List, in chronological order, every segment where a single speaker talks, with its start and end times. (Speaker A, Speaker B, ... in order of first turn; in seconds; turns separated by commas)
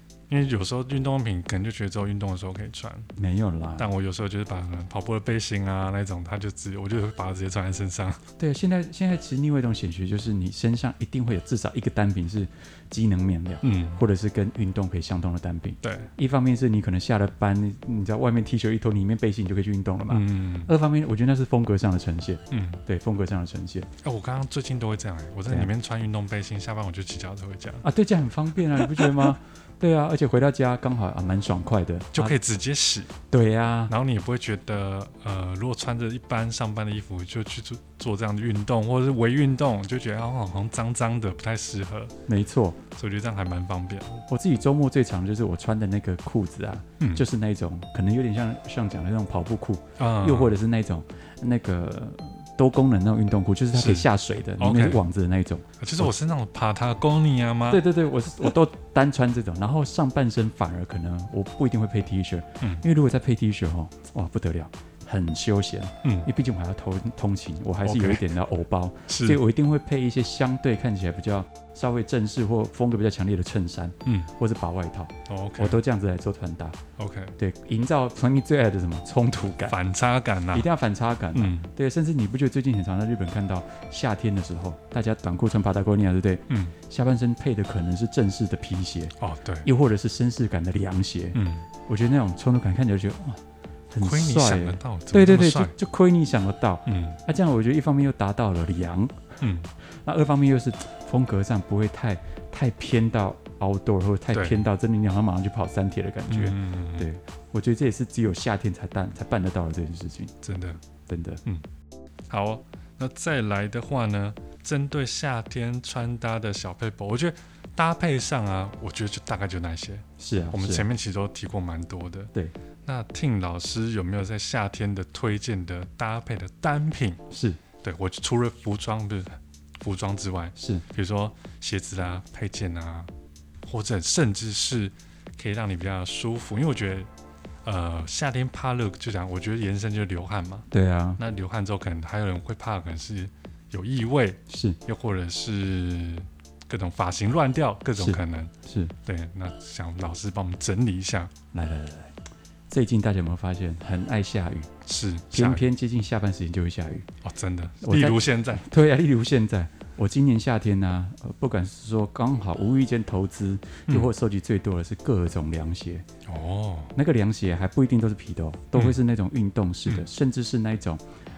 Speaker A: 0.3-3.1, Speaker B: 3.1-3.9, Speaker A: 3.8-8.2, Speaker B: 8.4-23.9, Speaker A: 13.6-14.0, Speaker A: 15.8-16.1, Speaker A: 20.1-20.7, Speaker A: 22.5-22.8, Speaker A: 24.0-27.9, Speaker B: 25.4-25.7, Speaker B: 27.8-32.4, Speaker A: 28.6-29.4, Speaker A: 32.1-33.1, Speaker B: 33.3-33.9, Speaker A: 33.9-42.1, Speaker B: 42.3-42.8, Speaker A: 42.9-44.2, Speaker B: 44.3-56.1, Speaker A: 47.0-47.2, Speaker A: 50.0-50.5, Speaker A: 53.7-54.1, Speaker A: 54.6-55.0, Speaker A: 55.8-57.8, Speaker B: 57.7-76.8, Speaker A: 67.8-68.3, Speaker A: 69.1-69.4, Speaker A: 75.3-75.8, Speaker A: 77.0-77.3, Speaker B: 77.4-79.8, Speaker A: 79.7-80.7, Speaker B: 80.5-89.1, Speaker A: 81.3-81.7, Speaker A: 86.5-86.7, Speaker A: 89.2-89.7, Speaker B: 89.6-110.3, Speaker A: 91.3-91.7, Speaker A: 94.0-95.7, Speaker A: 96.8-97.2, Speaker A: 99.4-99.7, Speaker A: 104.3-104.6, Speaker A: 106.3-107.1, Speaker A: 110.4-110.8, Speaker B: 111.1-111.4, Speaker A: 112.3-122.3, Speaker B: 120.2-120.9, Speaker A: 122.8-127.2, Speaker B: 127.3-127.6, Speaker A: 127.8-133.1, Speaker B: 130.6-130.8, Speaker A: 133.6-137.1, Speaker A: 137.6-140.7, Speaker B: 140.7-141.2, Speaker A: 141.2-148.5, Speaker B: 144.5-144.8, Speaker B: 148.0-148.9, Speaker A: 149.0-151.3, Speaker B: 151.5-152.2, Speaker B: 152.7-154.7, Speaker A: 154.8-155.6, Speaker B: 155.3-157.1, Speaker A: 157.2-158.7, Speaker B: 157.8-166.1, Speaker A: 166.3-166.9, Speaker B: 166.9-171.0